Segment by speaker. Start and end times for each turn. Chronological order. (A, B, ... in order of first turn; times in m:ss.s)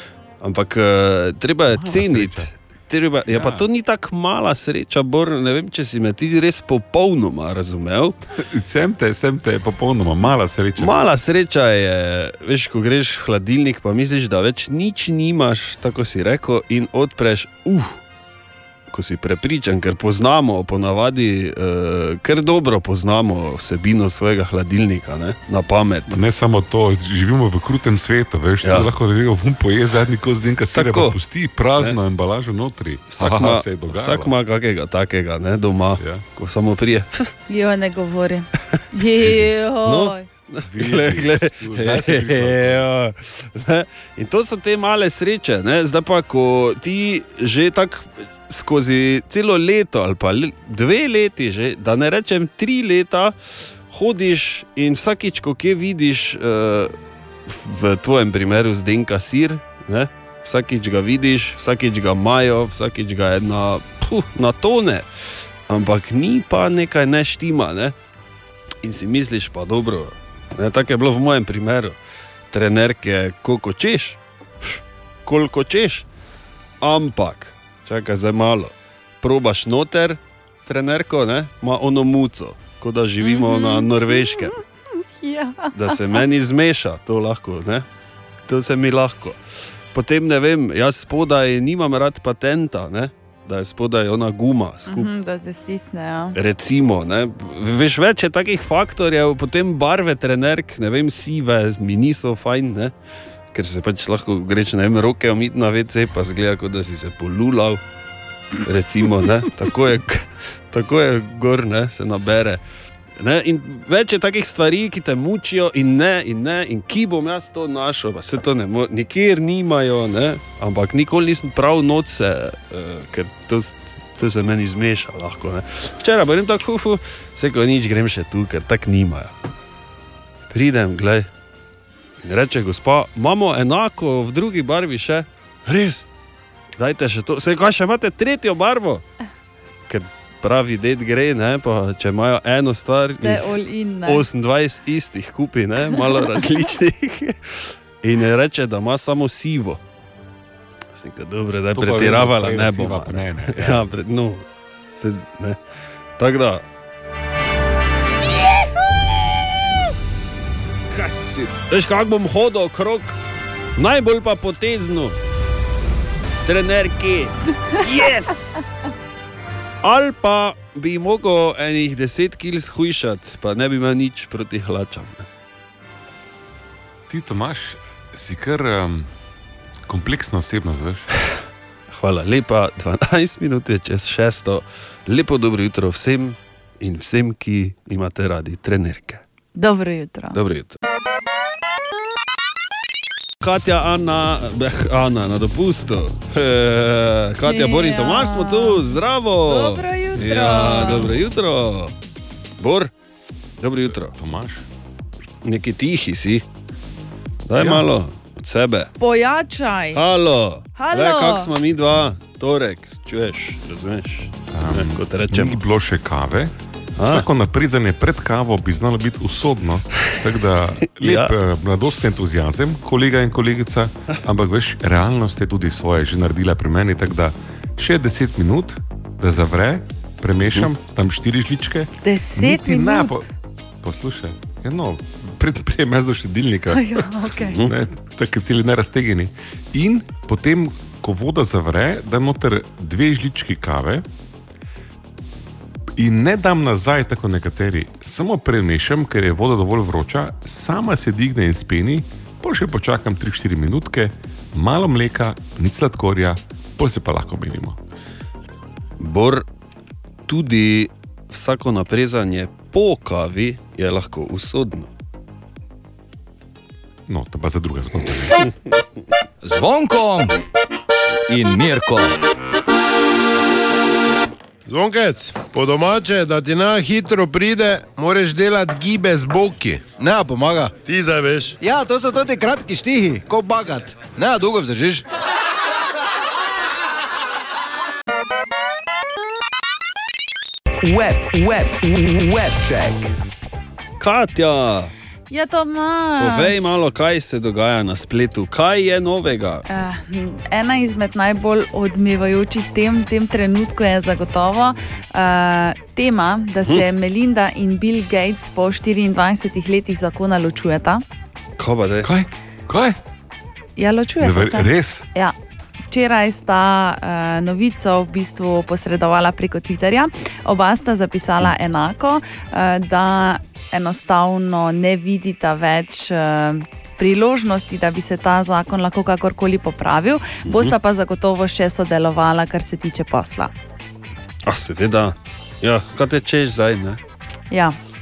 0:00.4-0:08.2 A
0:01.7-0:02.5 B
0:03.3-0:03.6 B
0:08.3-0:10.9 B
0:10.8-0:18.0 A
0:18.9-0:26.2 A
0:26.1-0:34.3 B
0:28.6-0:28.9 A
0:30.7-0:31.1 A
0:33.1-0:37.3 A
0:36.0-0:36.2 B
0:37.5-0:40.2 C
0:39.8-0:53.3 A
0:40.6-0:42.9 B
0:53.9-0:56.9 A
0:57.5-1:05.1 A
1:05.7-1:07.9 A
1:08.8-1:12.0 A
1:12.5-1:16.0 A
1:16.8-1:24.6 A
1:23.2-1:26.0 C
1:25.7-1:27.8 A
1:28.5-1:29.4 A
1:29.9-1:35.1 A
1:34.9-1:36.4 C
1:36.4-1:42.9 A
1:43.5-1:47.8 A
1:48.6-1:52.6 A
1:53.2-2:09.3 A
2:10.5-2:11.3 A
2:12.2-2:16.1 A
2:16.8-2:19.0 A
2:19.9-2:23.5 A
2:23.2-2:24.2 C
2:24.0-2:29.8 A
2:30.9-2:34.4 A
2:31.7-2:33.8 B
2:35.0-2:35.6 A
2:36.2-2:36.6 A
2:40.9-2:43.2 A
2:43.8-2:45.2 A
2:46.4-2:48.7 A
2:49.8-2:55.3 A
2:57.1-2:59.1 B
2:59.9-3:01.1 B
3:01.9-3:09.2 A
3:09.5-3:10.4 C
3:10.3-3:10.8 A
3:13.4-3:21.9 A
3:17.4-3:21.1 C
3:22.6-3:22.9 A
3:23.6-3:24.1 A
3:23.9-3:24.6 B
3:25.4-3:26.4 A
3:27.4-3:28.9 A
3:27.6-3:27.9 B
3:29.0-3:30.0 C
3:29.9-3:35.6 A
3:30.7-3:31.5 C
3:34.5-3:36.5 B
3:37.0-3:37.2 A
3:37.0-3:53.3 B
3:41.0-3:41.3 A
3:52.0-3:53.2 C
3:53.8-4:04.0 B
3:56.7-3:57.6 C
4:06.0-4:17.8 B
4:19.0-4:19.4 A
4:20.3-4:24.9 A
4:27.1-4:28.4 B
4:29.4-4:30.3 D
4:31.3-4:32.1 D
4:34.6-4:39.9 E
4:40.0-4:40.8 F
4:40.8-4:41.6 E
4:41.6-4:45.0 F
4:50.8-4:53.1 D
4:54.0-4:54.9 A
4:55.3-4:56.7 C
4:56.2-4:59.6 A
4:59.7-5:11.0 C
5:11.6-5:12.1 A
5:12.0-5:13.0 B
5:13.8-5:15.3 C
5:14.2-5:15.0 B
5:15.9-5:33.5 C
5:30.4-5:30.7 A
5:34.4-5:37.0 A